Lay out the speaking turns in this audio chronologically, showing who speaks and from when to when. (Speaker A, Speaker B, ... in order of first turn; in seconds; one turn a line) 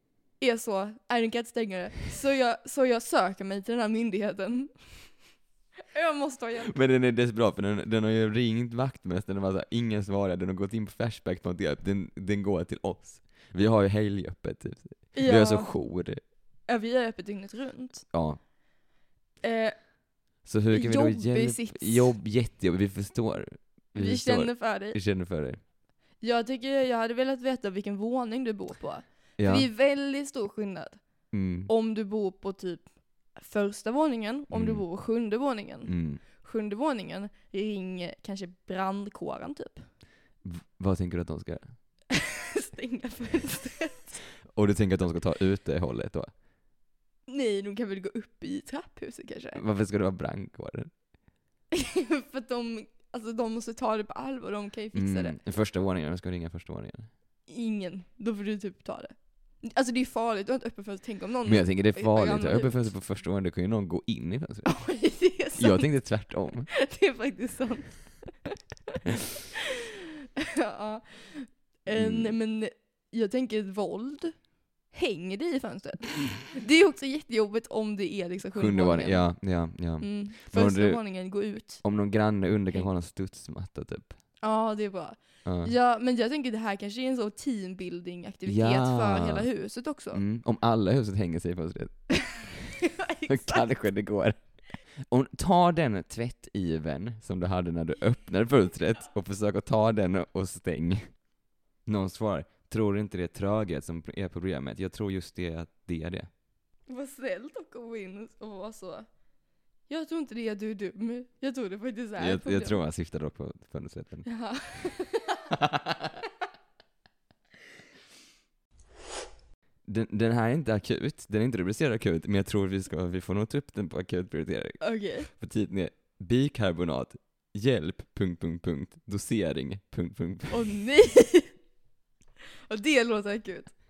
Speaker A: 0.4-5.3
Speaker A: 5.9-6.8
Speaker B: 6.7-16.2
Speaker A: 15.2-15.8
Speaker A: 16.7-18.1
Speaker B: 18.1-18.4
Speaker A: 19.4-19.9
Speaker B: 20.4-25.6
Speaker A: 20.7-22.1
Speaker A: 23.9-25.0
Speaker A: 26.2-39.9
Speaker B: 29.4-29.7
Speaker B: 31.3-31.7
Speaker B: 34.5-34.9
Speaker B: 35.9-36.2
Speaker B: 40.4-41.7
Speaker A: 42.2-44.2
Speaker B: 44.5-46.3
Speaker A: 47.3-49.6
Speaker B: 49.5-50.9
Speaker A: 51.7-55.4
Speaker B: 54.9-57.1
Speaker A: 57.5-62.9
Speaker B: 61.5-65.0
Speaker A: 64.7-68.5
Speaker B: 65.5-66.7
Speaker A: 70.6-81.8
Speaker B: 71.9-72.4
Speaker B: 78.5-81.1
Speaker B: 81.8-84.2
Speaker A: 84.4-90.2
Speaker B: 85.5-85.7
Speaker B: 88.5-89.5
Speaker B: 90.1-101.2
Speaker A: 92.9-93.7
Speaker B: 101.9-106.3
Speaker A: 106.9-109.1
Speaker A: 109.9-112.8
Speaker B: 112.2-114.4
Speaker A: 114.2-115.5
Speaker B: 115.5-116.2
Speaker B: 119.9-130.6
Speaker A: 124.8-125.3
Speaker A: 130.5-131.6
Speaker A: 132.7-133.7